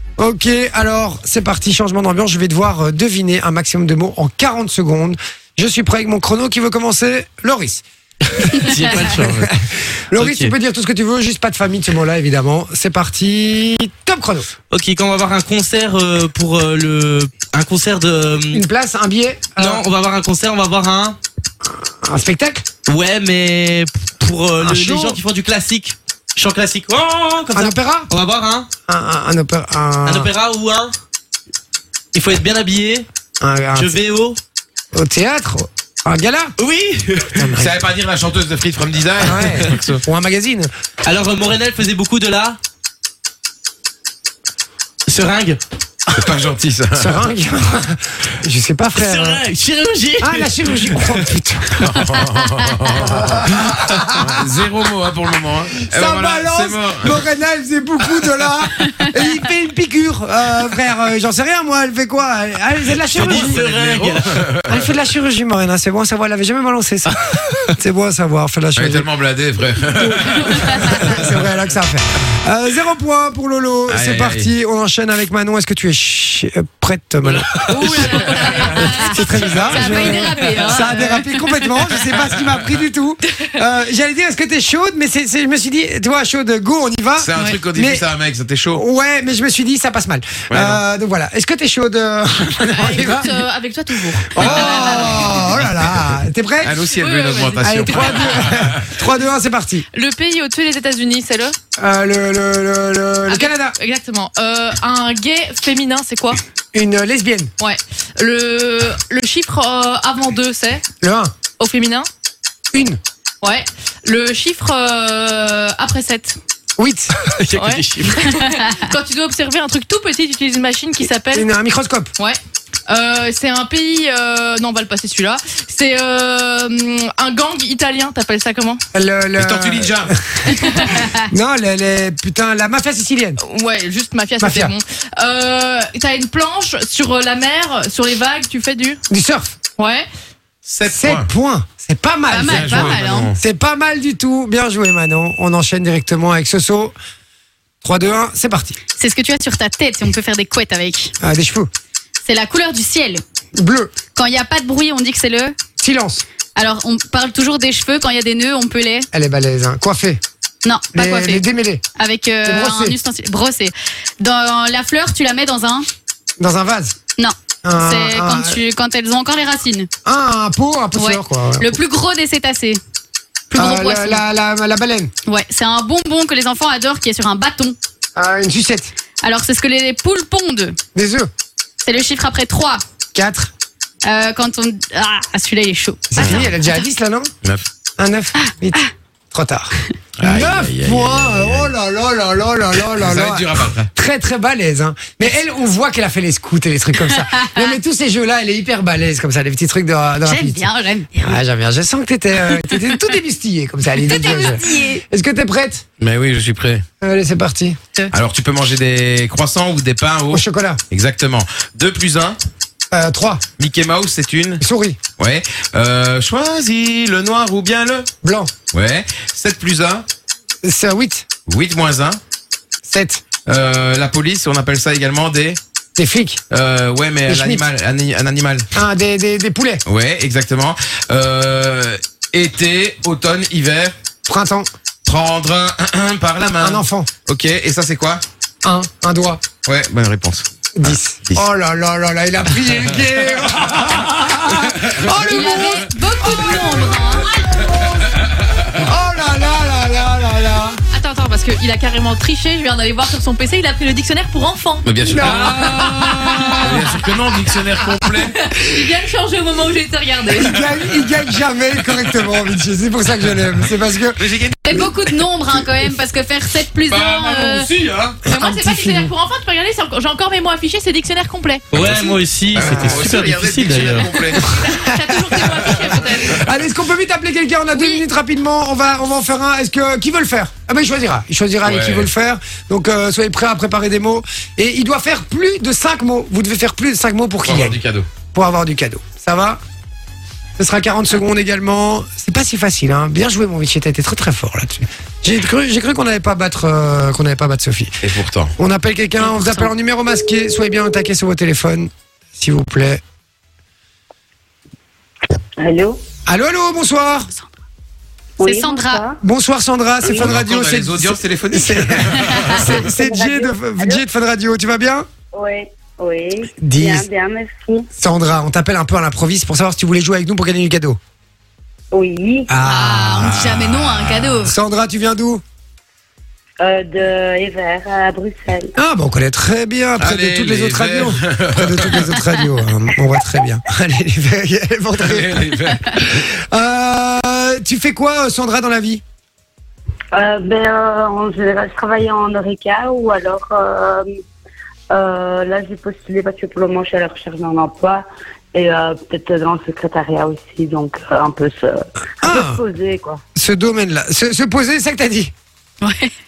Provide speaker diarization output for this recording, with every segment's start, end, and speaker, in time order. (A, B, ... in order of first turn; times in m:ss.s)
0:00.2-0:07.8 A
0:08.4-0:14.5 A
0:08.4-0:09.5 B
0:10.1-0:10.5 B
0:14.7-0:18.6 B
0:18.5-0:19.8 A
0:19.6-0:21.2 B
0:21.6-0:22.6 A
0:22.9-0:28.7 B
0:24.6-0:25.2 A
0:27.5-0:28.1 A
0:28.9-0:30.3 A
0:30.0-0:31.0 B
0:32.1-0:33.1 B
0:33.4-0:34.0 A
0:33.7-0:34.4 B
0:34.9-0:36.5 A
0:36.6-0:37.5 B
0:37.3-0:37.8 A
0:37.5-0:40.0 C
0:39.2-0:40.7 A
0:41.0-0:42.6 B
0:45.1-0:45.6 B
0:46.1-0:47.2 C
0:47.0-0:49.4 A
0:49.0-0:51.0 B
0:50.2-0:52.1 A
0:51.8-0:53.5 C
0:53.0-0:54.6 A
0:54.1-0:57.2 C
0:55.8-1:03.6 A
1:03.0-1:04.6 B
1:03.1-1:04.9 C
1:04.7-1:09.1 A
1:08.7-1:11.5 C
1:10.0-1:28.1 A
1:13.9-1:14.5 C
1:17.3-1:18.5 B
1:17.7-1:18.6 C
1:17.7-1:21.2 D
1:19.7-1:21.8 E
1:22.1-1:22.8 C
1:27.2-1:28.8 C
1:28.7-1:33.3 A
1:30.5-1:30.8 C
1:32.8-1:35.5 D
1:34.3-1:36.8 A
1:34.4-1:36.1 C
1:36.6-1:38.9 C
1:36.9-1:38.5 D
1:37.6-1:39.8 A
1:39.9-1:41.6 D
1:41.8-1:43.8 A
1:43.3-1:46.4 D
1:46.7-1:47.5 A
1:47.6-1:50.8 D
1:51.0-1:51.3 A
1:51.6-1:52.1 D
1:52.7-1:53.0 A
1:53.4-1:56.4 D
1:56.8-1:57.1 A
1:57.2-1:58.5 B
1:57.5-2:01.5 D
2:01.3-2:02.1 A
2:02.2-2:08.8 D
2:08.9-2:13.4 A
2:09.4-2:10.1 C
2:13.4-2:19.0 D
2:14.4-2:14.7 A
2:19.1-2:19.5 A
2:19.8-2:20.0 D
2:20.6-2:21.3 C
2:20.9-2:26.9 A
2:22.3-2:23.3 E
2:22.4-2:23.4 C
2:27.8-2:28.8 A
2:29.0-2:31.1 E
2:31.2-2:31.7 A
2:32.2-2:33.2 E
2:33.6-2:33.9 A
2:34.1-2:35.6 E
2:35.8-2:36.2 A
2:36.6-2:39.1 E
2:39.1-2:40.2 A
2:40.6-2:41.4 E
2:40.9-2:41.8 A
2:42.0-2:45.8 E
2:42.4-2:43.0 A
2:46.4-2:47.0 A
2:47.2-2:49.9 E
2:47.6-2:48.6 A
2:50.0-2:51.8 A
2:51.0-2:52.8 E
2:53.5-2:54.2 E
2:53.5-2:55.1 A
2:55.2-2:57.8 E
2:58.2-2:58.9 A
2:59.2-3:00.8 E
3:00.9-3:01.3 A
3:01.8-3:02.8 E
3:03.1-3:03.5 A
3:04.0-3:06.8 E
3:06.1-3:07.3 A
3:06.2-3:06.4 C
3:08.0-3:20.7 A
3:10.2-3:11.7 C
3:12.9-3:13.9 C
3:20.2-3:21.4 E
3:21.2-3:25.8 A
3:22.5-3:22.9 E
3:24.0-3:25.0 E
3:26.0-3:26.8 C
3:27.0-3:27.8 A
3:28.1-3:32.4 C
3:30.3-3:30.8 A
3:32.9-3:33.4 A
3:33.6-3:34.6 C
3:34.6-3:35.0 A
3:35.2-3:38.1 C
3:38.2-3:38.5 A
3:38.7-3:40.0 C
3:40.6-3:41.2 A
3:41.5-3:42.2 C
3:42.8-3:43.2 A
3:43.5-3:45.6 C
3:46.0-3:46.4 A
3:46.5-3:48.7 C
3:47.3-3:47.6 A
3:48.7-3:49.8 A
3:49.8-3:53.9 C
3:54.2-3:54.7 A
3:55.0-3:58.2 C
3:56.6-3:57.1 A
3:58.6-3:59.4 A
3:59.6-4:01.4 C
4:00.8-4:06.8 A
4:03.4-4:05.7 C
4:05.3-4:07.3 E
4:07.5-4:08.0 A
4:08.7-4:10.8 A
4:10.9-4:17.1 D
4:14.8-4:15.9 C
4:15.0-4:17.0 A
4:16.5-4:18.4 C
4:18.1-4:20.6 D
4:20.3-4:24.2 A
4:21.8-4:22.5 C
4:24.2-4:24.9 C
4:24.6-4:27.7 E
4:26.9-4:28.2 C
4:28.2-4:29.1 A
4:28.2-4:31.7 D
4:31.7-4:34.1 B
4:31.7-4:34.7 C
4:32.6-4:33.0 A
4:34.1-4:36.4 D
4:34.3-4:47.8 A
4:35.3-4:35.9 C
4:41.6-4:42.1 C
4:47.4-4:48.1 C
4:48.3-4:49.6 A
4:50.6-4:58.0 A
4:58.0-4:58.5 C
4:58.6-5:03.0 A
4:59.2-4:59.7 E
5:05.6-5:06.0 F
5:06.3-5:07.3 A
5:08.4-5:09.2 F
5:08.4-5:09.0 E
5:09.2-5:15.1 A
5:10.0-5:12.9 C
5:12.9-5:14.0 F
5:15.3-5:17.9 F
5:16.6-5:17.1 A
5:18.0-5:21.0 A
5:21.9-5:22.5 F
5:22.5-5:23.4 A
5:22.6-5:24.5 E
5:23.2-5:24.5 C
5:24.4-5:25.4 A
5:26.6-5:28.7 F
5:28.8-5:39.0 A
5:30.0-5:32.4 C
5:35.0-5:36.0 C
5:40.1-5:44.1 F
5:44.9-5:53.2 F
5:52.2-5:52.6 A
5:53.4-5:55.3 A
5:55.8-5:56.1 E